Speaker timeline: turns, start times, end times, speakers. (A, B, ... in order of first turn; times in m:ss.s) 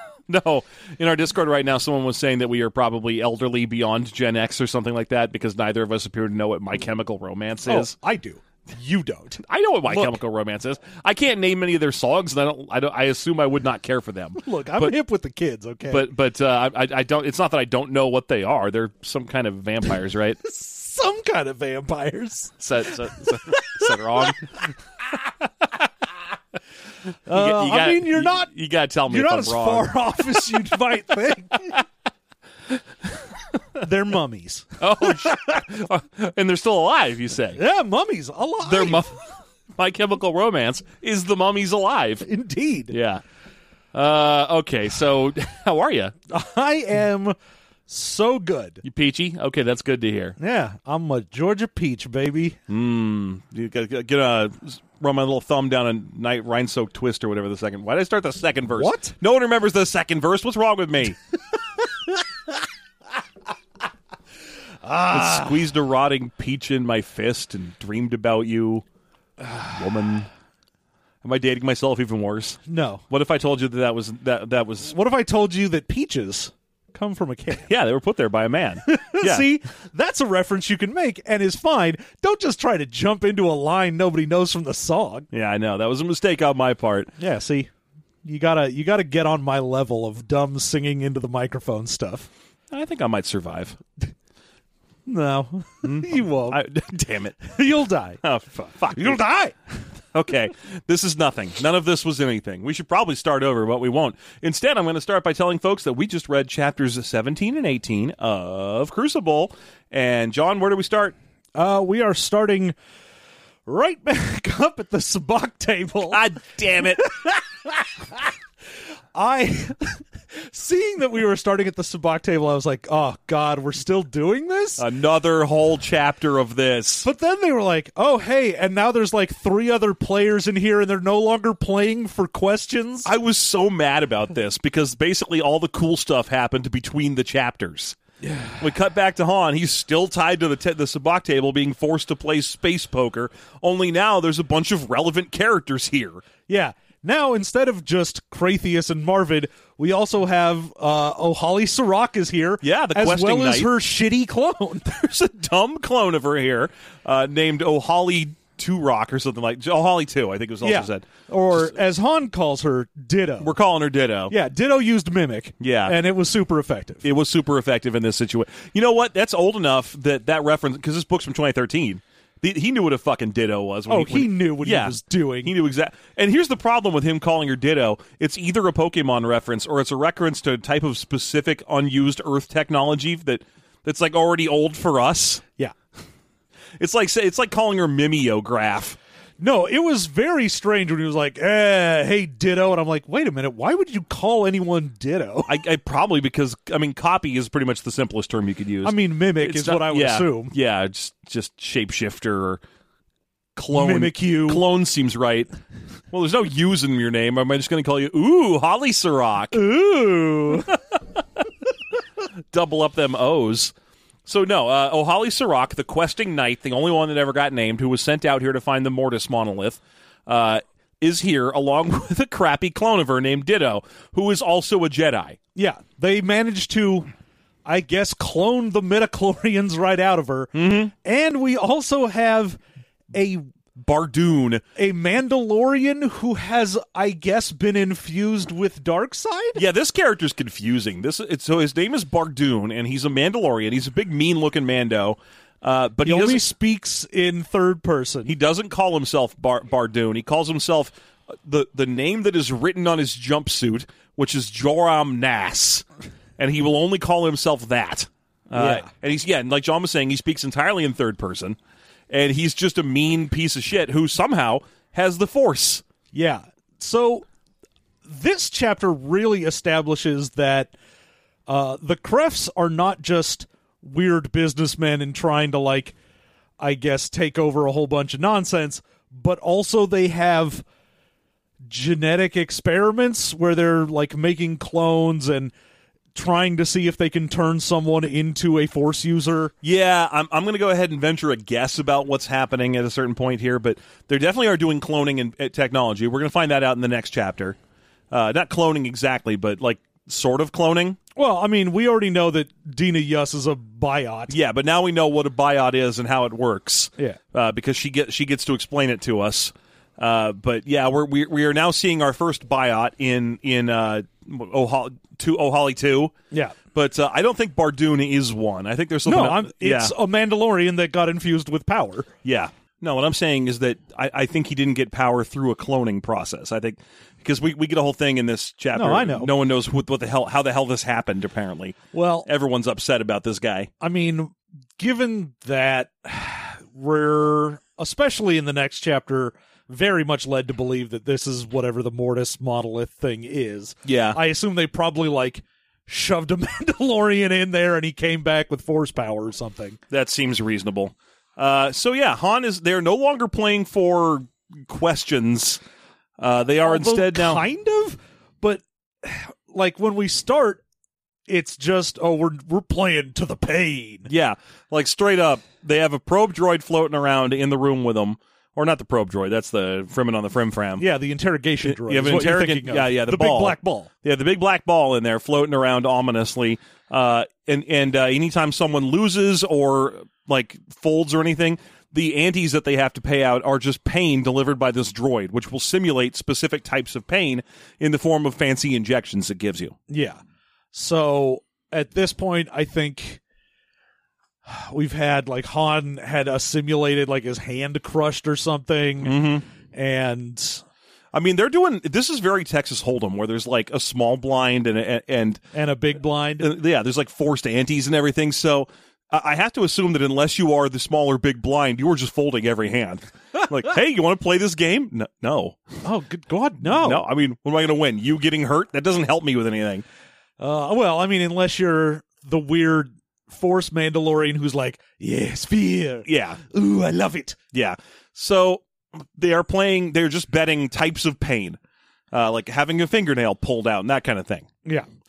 0:00.3-0:07.9 A
0:07.6-0:10.2 B
0:09.4-0:15.0 A
0:14.4-0:16.1 B
0:15.9-0:20.4 A
0:20.4-0:22.6 B
0:22.6-0:24.7 A
0:23.2-0:24.3 B
0:27.2-0:28.5 B
0:27.3-0:30.6 A
0:29.1-0:31.8 B
0:33.8-0:35.3 B
0:34.8-0:37.6 A
0:37.6-0:39.0 B
0:38.6-0:42.2 A
0:42.2-0:42.9 B
0:42.9-0:43.2 A
0:43.9-0:46.1 A
0:46.3-0:47.3 B
0:47.9-0:48.8 B
0:48.8-0:50.4 A
0:50.4-0:52.6 B
0:52.7-1:01.2 A
0:58.8-0:59.1 B
1:01.8-1:02.2 B
1:04.8-1:05.6 B
1:05.1-1:08.8 A
1:09.5-1:10.3 A
1:11.2-1:14.9 A
1:12.7-1:13.0 B
1:14.8-1:17.7 B
1:17.6-1:19.4 A
1:18.9-1:25.3 B
1:25.3-1:27.1 A
1:27.2-1:27.7 B
1:28.2-1:32.3 B
1:32.7-1:33.8 A
1:35.0-1:36.6 B
1:35.8-1:37.5 A
1:37.4-1:38.2 B
1:38.2-1:39.2 A
1:38.9-1:39.5 B
1:40.1-1:51.2 A
1:51.5-1:52.7 B
1:53.6-1:56.2 B
1:56.1-1:57.1 A
1:56.8-1:58.3 B
1:59.1-2:04.8 B
2:04.8-2:07.1 A
2:07.0-2:13.1 B
2:13.0-2:18.0 A
2:18.2-2:18.6 B
2:18.6-2:26.2 A
2:26.5-2:35.1 B
2:32.6-2:33.7 A
2:35.0-2:41.1 A
2:40.6-2:43.5 B
2:43.4-2:44.3 A
2:44.3-2:47.0 B
2:45.6-2:45.9 A
2:47.0-3:05.4 A
2:53.9-2:55.5 B
3:06.8-3:09.0 A
3:09.4-3:15.5 B
3:15.5-3:22.6 A
3:18.8-3:20.5 B
3:23.6-3:25.5 A
3:23.7-3:24.6 B
3:26.1-3:29.6 A
3:29.5-3:30.7 B
3:32.5-3:33.7 A
3:34.2-3:45.4 A
3:45.5-3:47.1 B
3:47.6-3:52.6 B
3:50.5-3:50.9 A
3:53.1-3:53.4 B
3:53.8-3:54.6 A
3:54.8-3:59.6 B
3:59.6-4:06.4 A
4:06.0-4:08.3 B
4:08.2-4:10.9 A
4:11.4-4:15.8 A
4:16.4-4:21.6 A
4:18.5-4:18.9 B
4:22.1-4:25.8 A
4:26.1-4:27.2 B
4:28.0-4:30.7 B
4:31.5-4:35.9 B
4:36.6-4:40.6 B
4:41.6-4:45.5 B
4:46.1-4:49.5 B
4:49.6-4:57.6 A
4:58.1-5:01.0 A
5:01.1-5:04.3 B
5:04.3-5:16.1 A
5:16.3-5:16.6 B
5:16.7-5:19.9 A
5:19.0-5:22.1 B
5:22.2-5:33.7 A
5:28.7-5:29.3 B
5:31.9-5:32.3 B
5:33.8-5:49.8 B
5:43.8-5:44.2 A
5:49.9-5:55.6 A
5:56.2-5:57.4 A
5:56.6-6:00.6 B
6:01.3-6:04.1 B
6:04.1-6:10.8 A
6:10.8-6:13.9 B
6:11.6-6:29.8 A
6:29.9-6:30.2 B
6:30.7-6:33.2 B
6:34.4-6:39.1 B
6:39.0-6:39.4 A
6:39.7-6:40.6 B
6:41.1-6:45.4 A
6:45.5-6:46.5 B
6:46.4-6:55.8 A
6:55.8-6:57.0 B
6:56.6-6:59.8 A
7:00.4-7:07.4 B
7:06.0-7:06.4 A
7:07.5-7:08.6 A
7:09.1-7:11.6 A
7:12.1-7:14.5 A